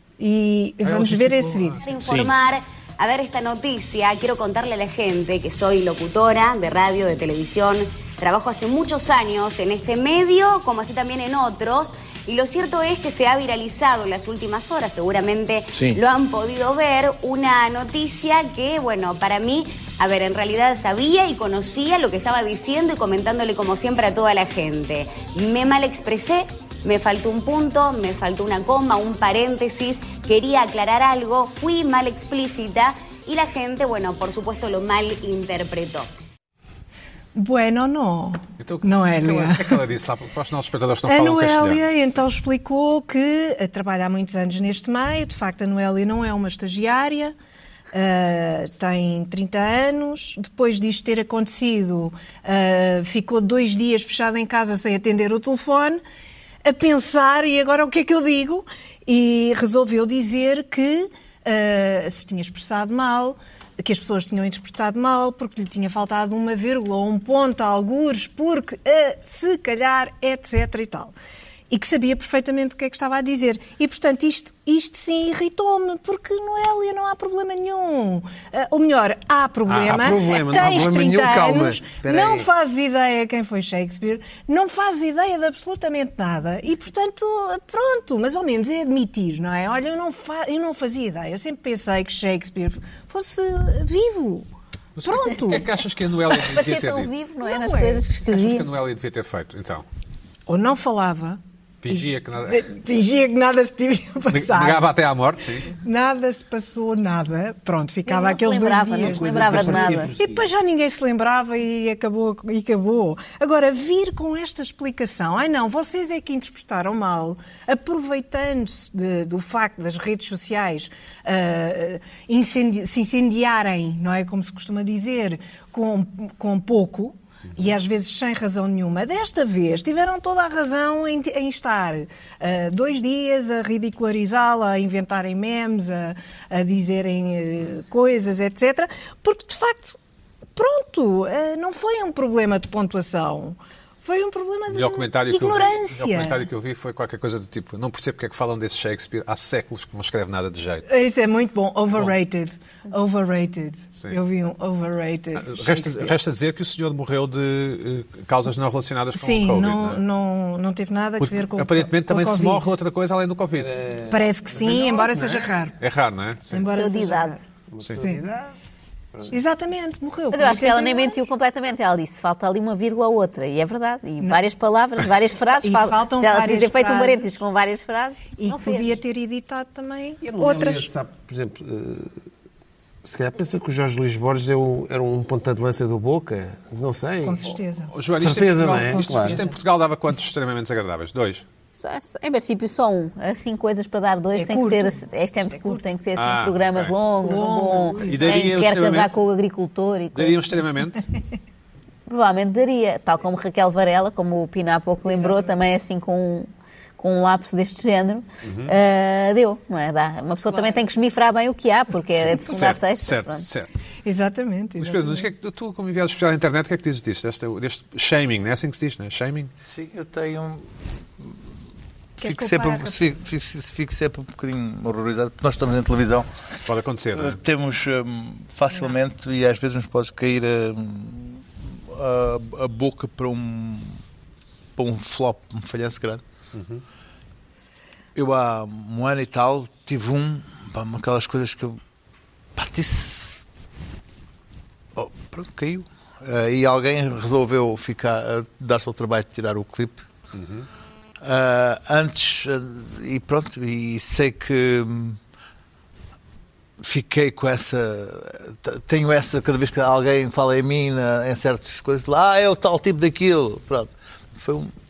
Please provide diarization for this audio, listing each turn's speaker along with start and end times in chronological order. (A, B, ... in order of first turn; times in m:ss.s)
0:00.2-0:01.8 A
0:00.8-0:02.3 B
0:01.8-0:36.1 C
0:37.3-0:39.8 A
0:38.6-0:41.8 B
0:41.0-0:47.3 A
0:47.9-0:56.0 A
0:56.6-1:11.1 A
1:11.7-1:34.5 A
1:19.7-1:20.0 B
1:19.8-1:22.5 D
1:35.0-1:37.1 B
1:35.0-1:35.7 A
1:36.4-1:36.8 A
1:36.5-1:38.7 E
1:37.4-1:38.0 A
1:38.3-1:39.8 B
1:40.5-1:44.9 A
1:41.8-1:42.6 B
1:44.3-1:45.7 B
1:45.7-2:20.0 A
1:48.0-1:50.1 E
1:49.0-1:50.4 D
2:20.5-2:26.4 A
2:24.7-2:30.9 B
2:30.9-2:36.1 A
2:35.4-2:40.0 B
2:39.1-2:42.7 A
2:41.2-2:43.7 B
2:43.6-2:45.5 D
2:44.1-2:45.7 A
2:45.8-2:46.7 B
2:46.5-2:47.4 A
2:46.7-2:47.4 E
2:47.7-2:48.5 D
2:49.3-2:51.2 A
2:50.3-2:59.0 E
2:55.6-2:57.3 A
2:58.4-3:00.9 A
3:00.2-3:02.2 D
3:03.0-3:07.5 D
3:07.2-3:07.9 A
3:07.9-3:11.4 B
3:08.2-3:09.4 D
3:08.9-3:09.5 A
3:11.7-3:20.5 E
3:14.4-3:15.8 A
3:16.1-3:16.9 B
3:17.2-3:18.5 A
3:18.1-3:19.1 B
3:20.1-3:21.0 B
3:22.1-3:33.4 E
3:25.1-3:25.5 A
3:28.4-3:28.7 B
3:32.2-3:33.7 B
3:34.0-3:35.3 A
3:34.8-3:39.5 B
3:39.7-3:40.6 F
3:42.2-3:43.2 A
3:42.2-3:46.3 F
3:46.6-3:47.4 B
3:47.1-3:54.0 F
3:54.8-3:56.2 F
3:56.5-3:56.8 B
3:58.1-4:01.8 F
4:02.6-4:03.4 F
4:05.0-4:10.0 F
4:10.3-4:10.7 B
4:11.2-4:15.2 F
4:16.8-4:24.7 F